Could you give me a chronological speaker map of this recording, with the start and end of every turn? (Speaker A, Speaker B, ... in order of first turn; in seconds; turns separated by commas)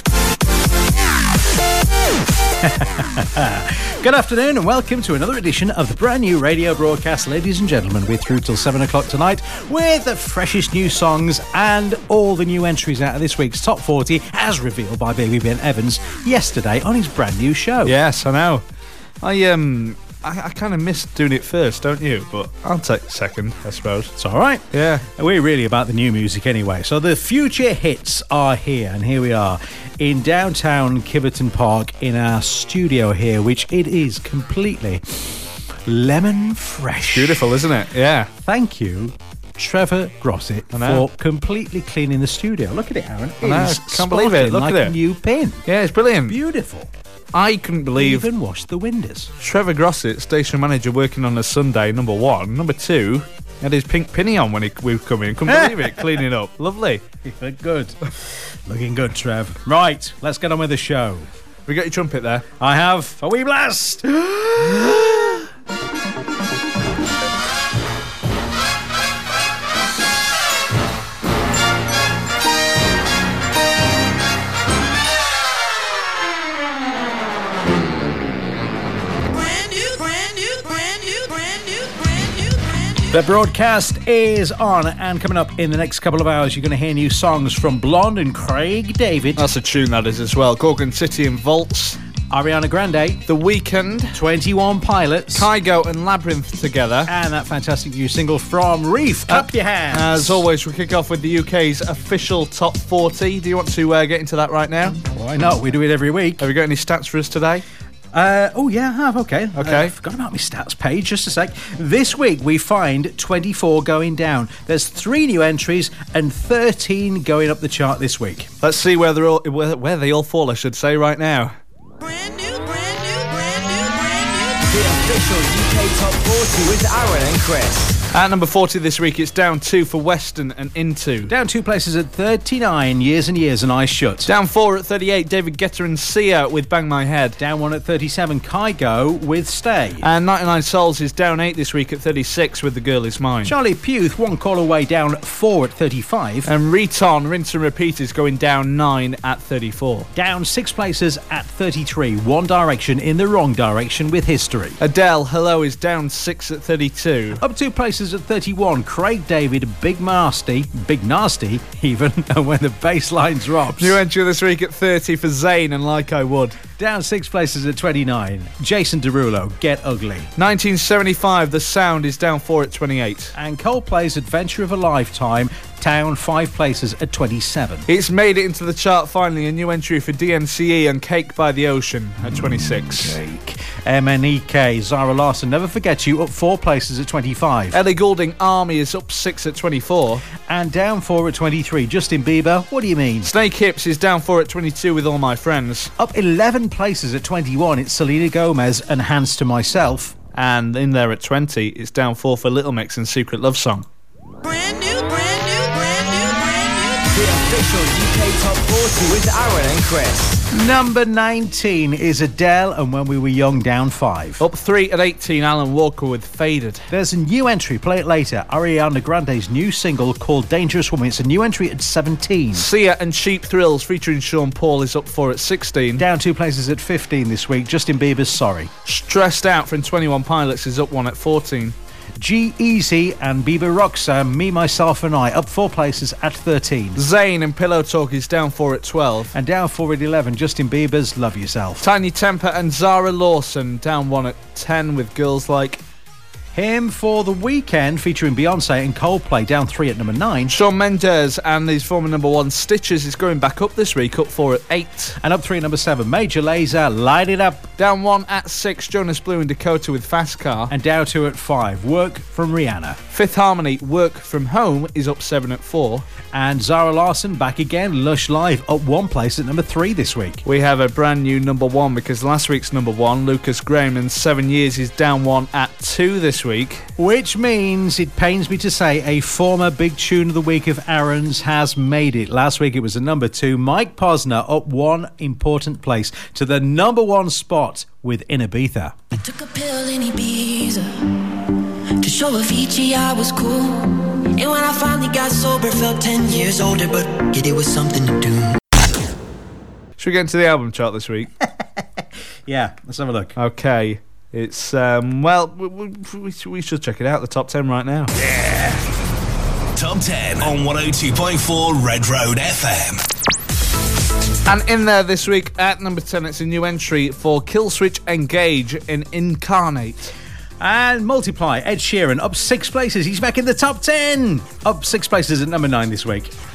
Speaker A: 2.6-17.9, Speaker B: 17.8-18.6, Speaker B: 19.2-24.1, Speaker A: 24.2-37.5, Speaker B: 24.7-25.1, Speaker B: 37.1-38.3, Speaker A: 38.5-45.6, Speaker B: 40.7-41.1, Speaker B: 43.4-45.0, Speaker B: 45.6-46.4, Speaker A: 46.3-46.9, Speaker B: 47.3-48.3, Speaker A: 48.0-49.3, Speaker B: 49.4-57.0, Speaker A: 55.5-56.2, Speaker A: 57.2-61.3, Speaker B: 61.6-62.5, Speaker A: 62.6-65.5, Speaker C: 79.7-81.4, Speaker A: 83.1-89.4, Speaker B: 89.4-92.0, Speaker A: 92.3-93.2, Speaker B: 93.3-94.2, Speaker A: 94.1-95.5, Speaker B: 95.3-97.1, Speaker A: 97.1-100.5, Speaker B: 99.3-105.0, Speaker A: 105.1-106.5, Speaker B: 106.4-107.7, Speaker A: 108.1-118.5, Speaker B: 109.6-109.9, Speaker B: 118.6-121.6, Speaker C: 122.1-124.7, Speaker D: 124.7-128.0, Speaker B: 128.1-131.3, Speaker A: 131.3-134.3, Speaker B: 134.2-137.4, Speaker A: 137.4-140.1, Speaker B: 140.0-143.6, Speaker A: 143.4-146.5, Speaker B: 146.4-150.1, Speaker A: 150.1-154.8, Speaker B: 154.8-157.4, Speaker A: 157.4-164.0, Speaker B: 163.8-166.6, Speaker A: 166.8-170.3, Speaker B: 170.4-173.3, Speaker A: 173.3-177.9, Speaker B: 177.9-183.2, Speaker A: 182.4-187.8, Speaker B: 187.7-190.2, Speaker A: 190.4-193.3, Speaker B: 193.2-195.9, Speaker A: 196.0-200.2, Speaker B: 200.3-203.9, Speaker C: 204.5-207.1, Speaker D: 207.1-210.4, Speaker A: 210.5-214.4, Speaker B: 214.4-216.9, Speaker A: 216.9-222.7, Speaker B: 222.5-226.1, Speaker A: 226.0-228.7, Speaker B: 228.8-231.8, Speaker A: 232.2-237.0, Speaker B: 236.9-239.3, Speaker A: 239.3-241.8, Speaker B: 241.8-245.8, Speaker A: 246.6-250.5, Speaker B: 250.5-255.2, Speaker A: 255.2-257.7, Speaker B: 257.8-260.7, Speaker A: 260.7-263.0, Speaker B: 263.1-266.1, Speaker A: 266.3-270.4, Speaker B: 270.4-276.9, Speaker A: 277.0-289.0, Speaker E: 289.3-290.7, Speaker C: 293.2-293.5, Speaker E: 293.6-294.2, Speaker C: 294.4-294.8, Speaker E: 296.4-297.2, Speaker E: 297.8-298.2, Speaker B: 300.0-301.3, Speaker A: 302.5-303.3, Speaker B: 303.4-308.1, Speaker F: 309.8-313.0, Speaker B: 314.4-320.1, Speaker A: 320.6-326.3